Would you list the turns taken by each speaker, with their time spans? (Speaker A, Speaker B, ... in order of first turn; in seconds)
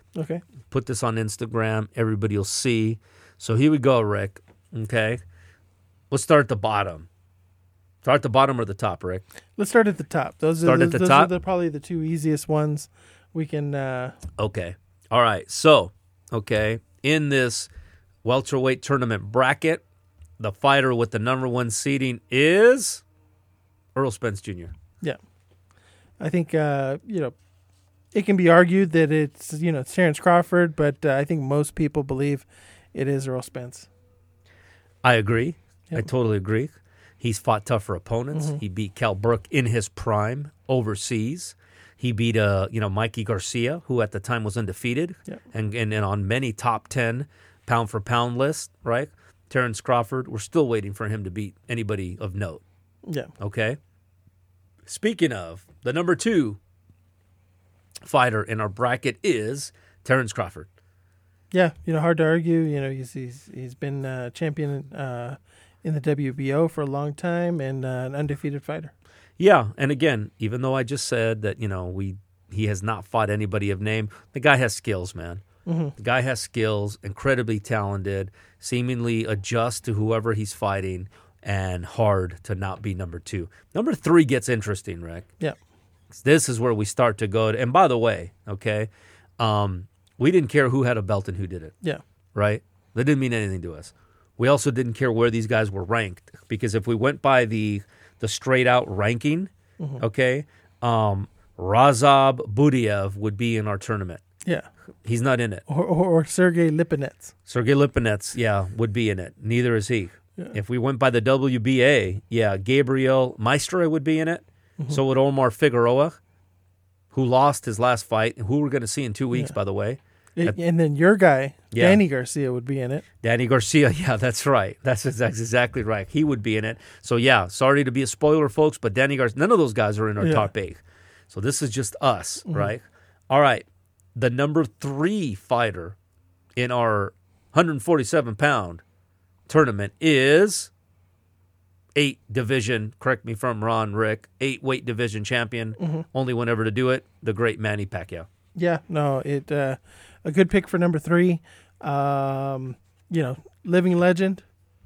Speaker A: 0.2-0.4, 9.6-14.2, 26.2-27.4, 28.1-33.9, 38.3-38.6, 53.1-53.3, 61.5-68.9, 75.7-76.0, 105.7-107.3, 120.4-123.0, 130.2-130.5, 145.8-146.1, 148.6-154.4
Speaker B: 0.7-5.2, 6.1-7.1, 8.0-9.2, 10.6-11.3, 14.4-17.7, 18.2-19.8, 20.4-23.0, 23.9-24.7, 35.0-52.6, 53.4-53.8, 54.9-56.6, 58.0-60.7, 69.4-75.4, 76.0-85.3, 86.1-91.7, 92.3-104.2, 105.0-105.6, 107.5-116.2, 117.1-120.6, 121.7-122.0, 123.2-136.0, 136.6-138.8, 139.5-140.7, 141.9-148.3